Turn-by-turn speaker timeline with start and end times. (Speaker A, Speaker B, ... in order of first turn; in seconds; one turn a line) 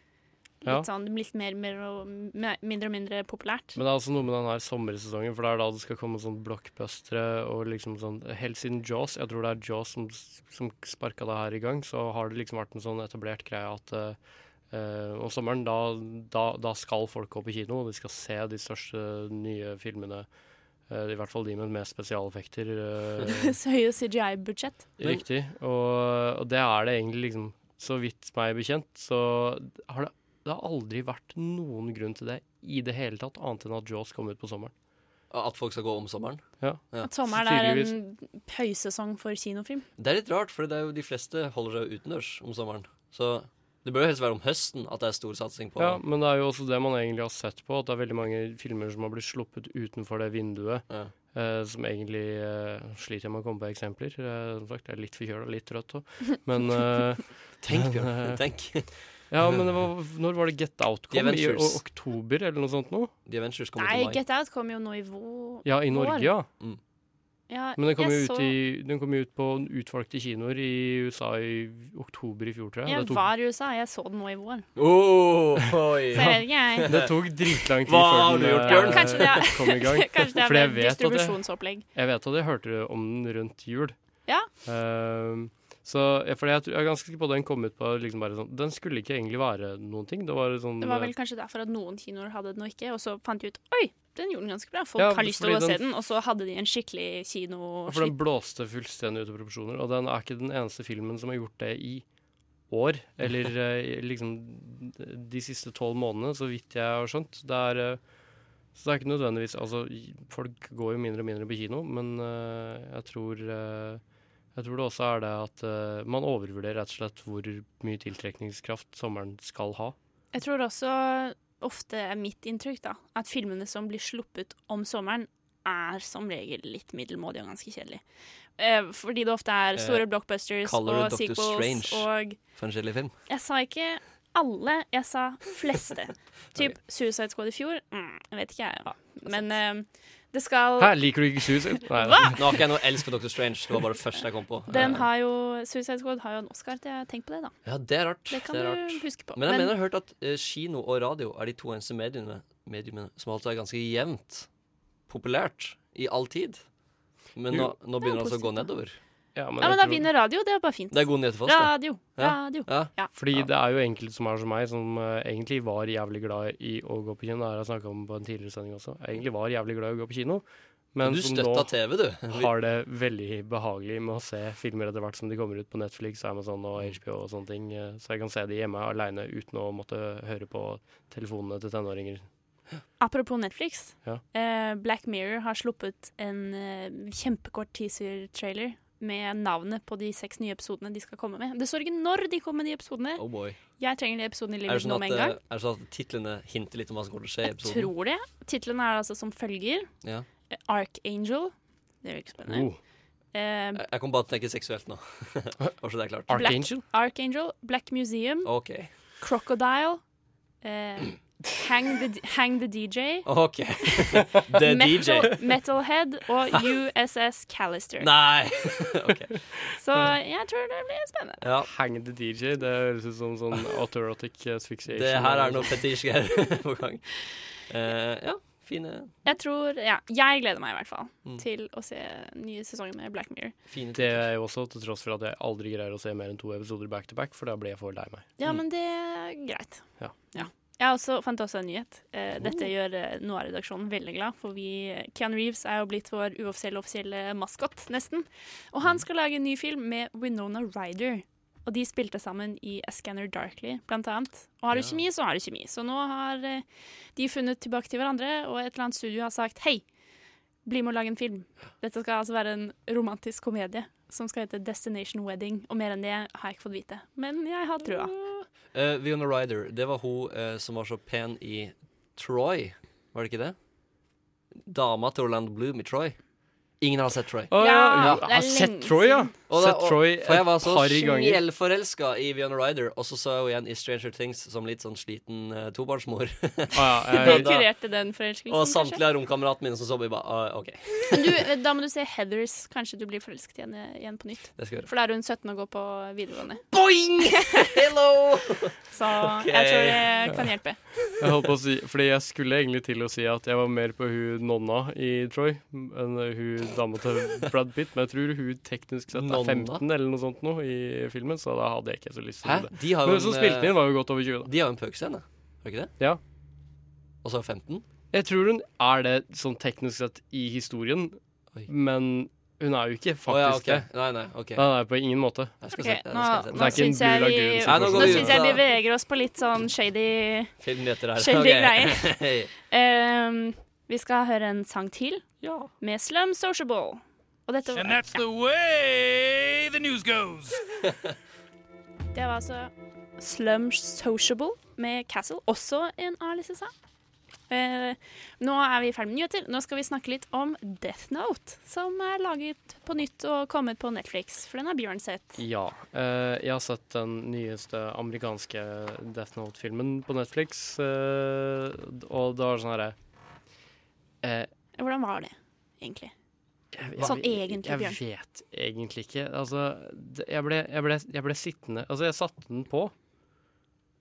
Speaker A: 0.6-3.8
Speaker B: 3.8-14.2
Speaker B: 14.7-20.3
Speaker B: 20.9-23.6
Speaker A: 23.3-24.9
Speaker B: 25.0-34.7
Speaker C: 35.3-37.1
Speaker B: 36.6-38.0
Speaker A: 37.0-39.9
Speaker C: 40.0-46.0
Speaker B: 45.8-58.4
Speaker C: 57.6-58.9
Speaker B: 59.3-63.1
Speaker C: 61.1-61.8
Speaker C: 63.3-64.2
Speaker A: 63.8-66.3
Speaker B: 65.7-66.5
Speaker A: 67.5-68.5
Speaker B: 67.8-73.2
Speaker A: 72.9-74.7
Speaker C: 74.8-79.5
Speaker A: 76.1-76.9
Speaker B: 76.2-81.4
Speaker A: 78.7-81.8
Speaker B: 81.9-84.0
Speaker B: 84.7-91.1
Speaker A: 90.8-98.2
Speaker B: 95.0-95.8
Speaker B: 97.9-102.0
Speaker B: 102.7-108.0
Speaker B: 108.8-114.0
Speaker B: 114.5-120.0
Speaker A: 120.3-128.0
Speaker A: 128.6-132.4
Speaker C: 129.8-130.1
Speaker C: 130.6-133.1
Speaker A: 133.3-142.5
Speaker B: 140.8-142.4
Speaker C: 142.2-145.1
Speaker A: 144.7-147.5
Speaker C: 147.7-154.5
Speaker A: 148.3-149.7
Speaker C: 155.1-156.6
Speaker C: 157.4-159.0
Speaker A: 158.0-158.7
Speaker B: 159.3-160.1
Speaker A: 159.6-163.1
Speaker C: 160.9-163.5
Speaker B: 163.1-171.7
Speaker C: 171.0-172.5
Speaker B: 172.3-182.2
Speaker A: 183.0-193.2
Speaker C: 193.2-193.6
Speaker A: 193.8-195.4
Speaker C: 194.7-197.9
Speaker A: 197.5-199.9
Speaker A: 200.5-202.7
Speaker B: 202.5-202.8
Speaker A: 203.3-203.8
Speaker C: 203.8-206.4
Speaker B: 206.3-206.8
Speaker A: 206.3-208.5
Speaker C: 208.4-208.9
Speaker A: 209.2-210.0
Speaker A: 210.6-213.3
Speaker C: 213.3-215.4
Speaker A: 213.9-218.1
Speaker C: 218.0-219.4
Speaker A: 219.8-221.4
Speaker C: 221.4-221.7
Speaker B: 221.6-225.8
Speaker C: 224.9-229.1
Speaker A: 229.2-233.5
Speaker C: 233.7-234.3
Speaker B: 233.9-238.2
Speaker A: 238.4-256.6
Speaker A: 257.2-259.8
Speaker A: 260.7-268.1
Speaker C: 267.8-273.6
Speaker C: 274.7-276.2
Speaker C: 276.8-278.2
Speaker B: 277.5-281.4
Speaker A: 277.6-279.3
Speaker C: 279.5-287.7
Speaker B: 286.7-287.5
Speaker A: 287.2-289.0
Speaker C: 288.5-291.4
Speaker A: 291.1-296.6
Speaker C: 294.6-294.9
Speaker C: 296.7-300.4
Speaker A: 298.9-300.8
Speaker B: 301.2-314.5
Speaker C: 309.1-309.8
Speaker C: 312.4-313.8
Speaker C: 314.4-315.9
Speaker C: 317.2-317.9
Speaker B: 318.1-323.9
Speaker C: 323.3-324.6
Speaker B: 324.6-325.6
Speaker C: 325.6-326.9
Speaker A: 325.7-330.6
Speaker B: 326.5-328.6
Speaker C: 327.6-328.6
Speaker C: 330.6-332.5
Speaker A: 331.2-332.1
Speaker A: 332.7-335.2
Speaker C: 335.4-335.7
Speaker A: 335.8-338.2
Speaker D: 337.7-340.6
Speaker A: 342.1-346.7
Speaker A: 347.5-355.4
Speaker B: 355.4-363.0
Speaker B: 364.2-364.5
Speaker A: 364.8-366.1
Speaker B: 366.7-372.9
Speaker A: 367.0-368.0